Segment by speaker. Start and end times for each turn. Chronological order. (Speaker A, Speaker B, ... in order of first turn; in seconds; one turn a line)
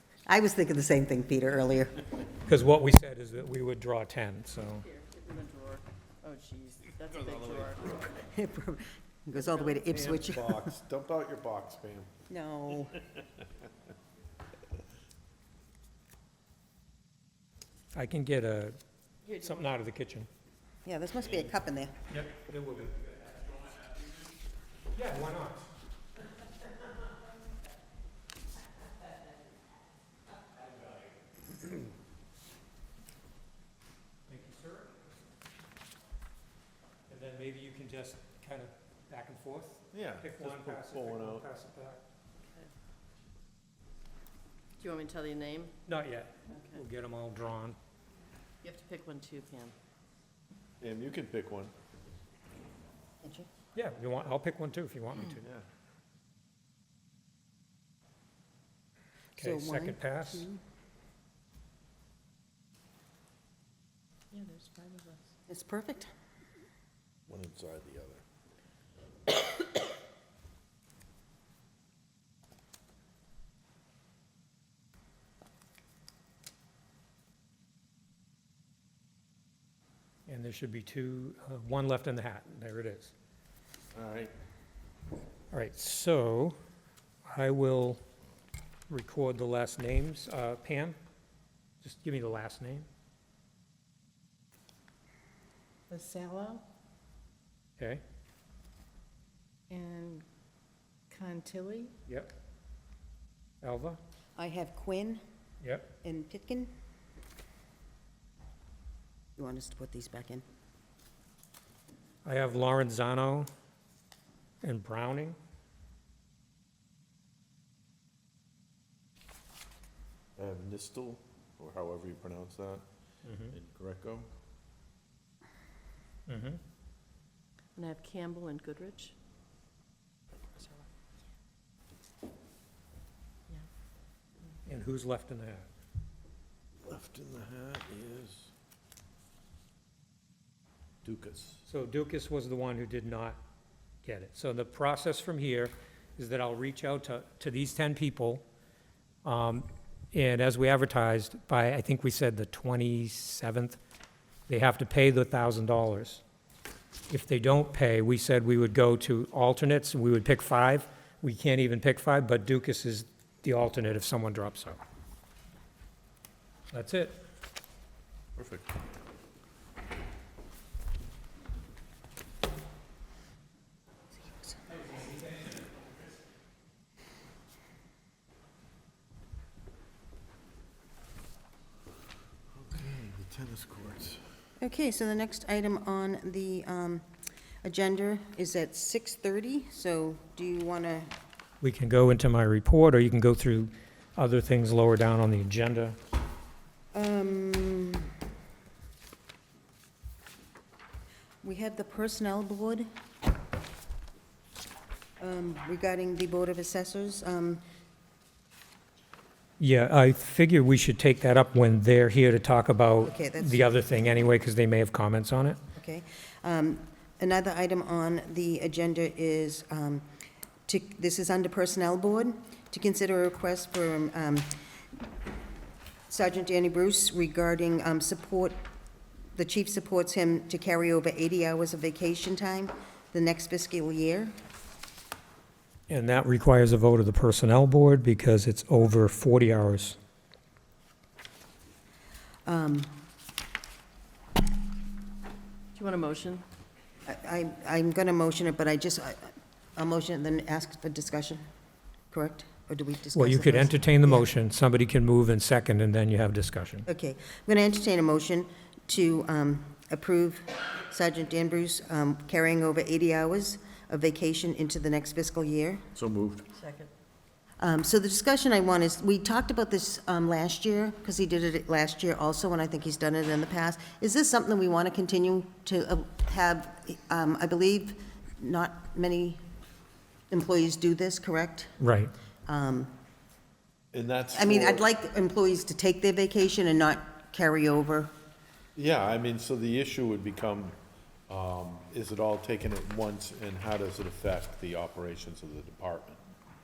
Speaker A: 0.3-2.1
Speaker B: 2.5-4.8
Speaker C: 4.8-8.0
Speaker D: 7.3-7.8
Speaker A: 8.0-10.7
Speaker D: 9.8-12.1
Speaker A: 12.3-13.0
Speaker B: 17.9-18.8
Speaker C: 19.2-19.7
Speaker B: 19.3-20.3
Speaker A: 20.8-22.0
Speaker B: 22.1-22.9
Speaker B: 24.9-25.6
Speaker B: 34.3-35.0
Speaker B: 37.1-42.0
Speaker D: 39.9-41.5
Speaker C: 44.8-45.7
Speaker B: 45.9-47.8
Speaker C: 46.5-46.8
Speaker C: 48.6-49.8
Speaker D: 50.8-51.7
Speaker A: 53.2-53.5
Speaker B: 53.8-55.4
Speaker D: 55.4-55.7
Speaker B: 59.4-60.5
Speaker A: 59.4-60.6
Speaker C: 64.3-65.2
Speaker A: 65.5-66.1
Speaker D: 67.3-68.2
Speaker B: 80.3-83.1
Speaker D: 83.9-84.3
Speaker B: 85.5-86.6
Speaker B: 87.2-88.0
Speaker B: 88.9-91.0
Speaker B: 91.8-92.9
Speaker E: 95.9-96.6
Speaker E: 99.7-100.2
Speaker E: 101.1-101.9
Speaker B: 102.1-102.3
Speaker B: 103.6-104.0
Speaker A: 104.4-105.2
Speaker B: 105.6-105.9
Speaker A: 106.0-106.7
Speaker A: 109.4-110.4
Speaker B: 112.2-113.5
Speaker B: 114.6-115.4
Speaker D: 120.4-122.8
Speaker B: 123.2-123.5
Speaker D: 123.5-124.3
Speaker B: 126.3-126.6
Speaker C: 127.7-129.1
Speaker B: 134.6-135.7
Speaker D: 136.8-138.5
Speaker D: 141.0-141.6
Speaker B: 141.6-143.4
Speaker B: 144.0-148.4
Speaker B: 149.2-153.8
Speaker B: 154.5-156.2
Speaker B: 157.1-164.8
Speaker B: 166.7-167.2
Speaker D: 168.3-168.7
Speaker D: 182.5-184.2
Speaker A: 184.6-187.0
Speaker A: 187.6-191.1
Speaker B: 191.6-196.0
Speaker A: 196.9-198.1
Speaker A: 201.4-202.8
Speaker A: 205.2-207.6
Speaker B: 209.6-215.6
Speaker A: 213.1-213.7
Speaker A: 215.8-220.0
Speaker A: 220.7-224.5
Speaker A: 226.1-228.6
Speaker A: 229.3-234.3
Speaker B: 235.9-240.0
Speaker A: 242.4-242.9
Speaker C: 245.7-246.4
Speaker A: 247.1-251.4
Speaker A: 252.1-254.3
Speaker B: 253.1-256.9
Speaker A: 256.9-265.8
Speaker D: 265.9-266.5
Speaker C: 266.6-266.9
Speaker A: 267.6-279.4
Speaker A: 280.3-281.7
Speaker B: 281.8-282.1
Speaker A: 282.5-282.9
Speaker D: 283.9-284.9
Speaker A: 284.3-288.1
Speaker D: 288.8-290.8
Speaker D: 291.3-296.2